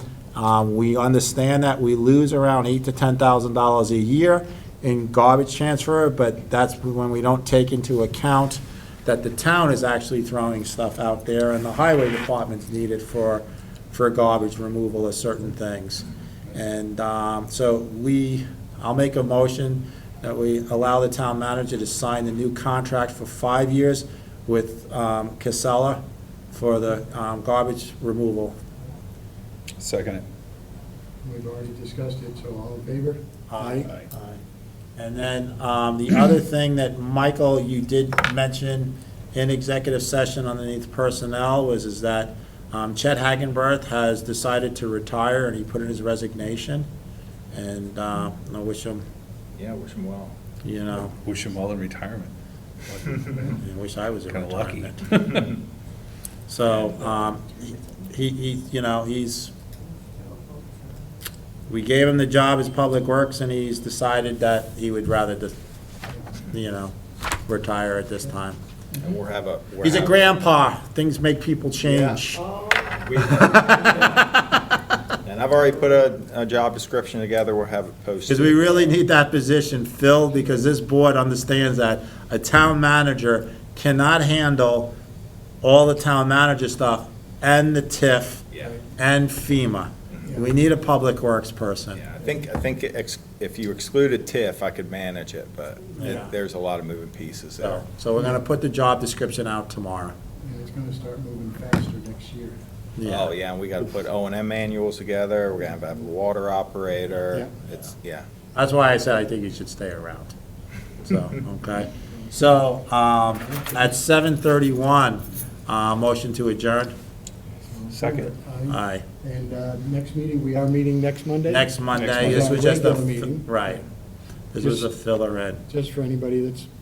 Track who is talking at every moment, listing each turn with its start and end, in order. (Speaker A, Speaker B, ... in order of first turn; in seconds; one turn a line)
Speaker A: 0.3-28.6
Speaker B: 29.8-30.2
Speaker C: 31.2-33.9
Speaker A: 33.5-34.4
Speaker A: 35.0-46.9
Speaker A: 47.5-49.0
Speaker D: 49.6-50.3
Speaker A: 50.6-51.1
Speaker B: 51.2-52.3
Speaker B: 52.8-53.6
Speaker A: 53.4-55.0
Speaker B: 54.3-55.6
Speaker A: 56.5-59.5
Speaker A: 61.7-65.5
Speaker A: 66.5-66.9
Speaker A: 67.5-68.6
Speaker D: 69.0-70.3
Speaker A: 69.8-72.6
Speaker D: 72.9-74.2
Speaker A: 73.2-74.6
Speaker D: 75.2-79.0
Speaker A: 78.3-84.9
Speaker A: 85.6-88.4
Speaker D: 88.5-88.8
Speaker A: 89.0-92.0
Speaker D: 91.9-97.8
Speaker A: 96.0-96.3
Speaker A: 97.6-100.1
Speaker C: 100.4-102.5
Speaker A: 103.0-103.3
Speaker D: 103.0-108.2
Speaker A: 108.5-110.3
Speaker A: 111.0-116.9
Speaker B: 117.9-118.3
Speaker C: 118.0-123.6
Speaker A: 118.7-119.0
Speaker A: 121.5-123.8
Speaker B: 121.9-122.3
Speaker A: 124.5-125.6
Speaker C: 124.6-124.9
Speaker C: 125.7-126.7